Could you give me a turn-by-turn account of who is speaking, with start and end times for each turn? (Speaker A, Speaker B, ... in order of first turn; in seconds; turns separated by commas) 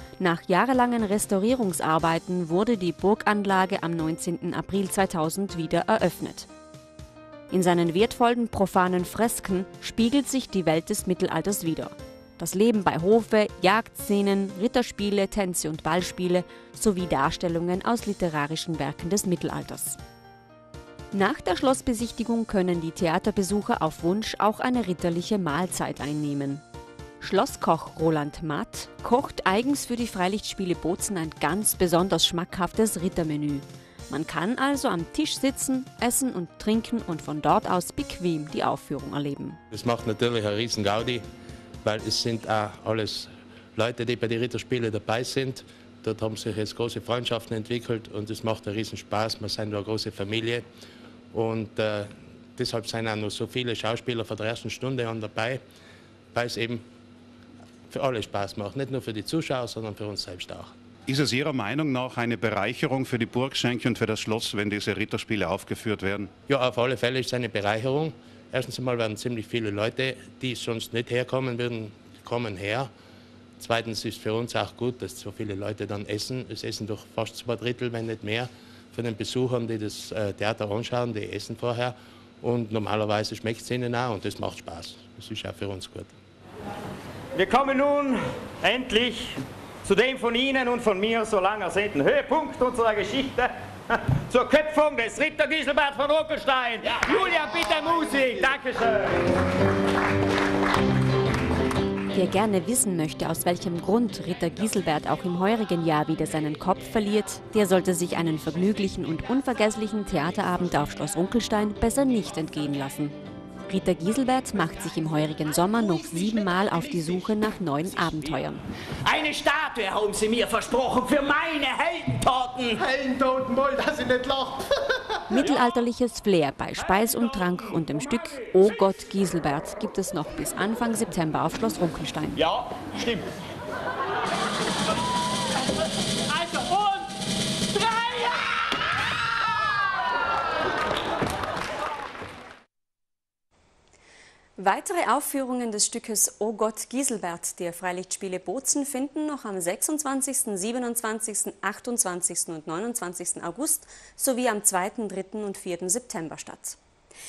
Speaker A: 0.2-6.5, Speaker A: 7.5-20.0, Speaker A: 21.1-26.6, Speaker A: 27.2-39.6, Speaker B: 39.7-41.2, Speaker B: 41.8-50.6, Speaker B: 51.3-55.6, Speaker B: 56.3-56.8, Speaker B: 57.9-60.7, Speaker C: 61.1-66.3, Speaker B: 66.5-72.9, Speaker B: 73.6-86.1, Speaker D: 87.3-99.2, Speaker A: 102.1-113.1, Speaker A: 113.7-118.6, Speaker E: 115.8-117.1, Speaker F: 119.1-122.8, Speaker E: 122.8-124.9, Speaker A: 125.3-132.4, Speaker G: 144.6-156.8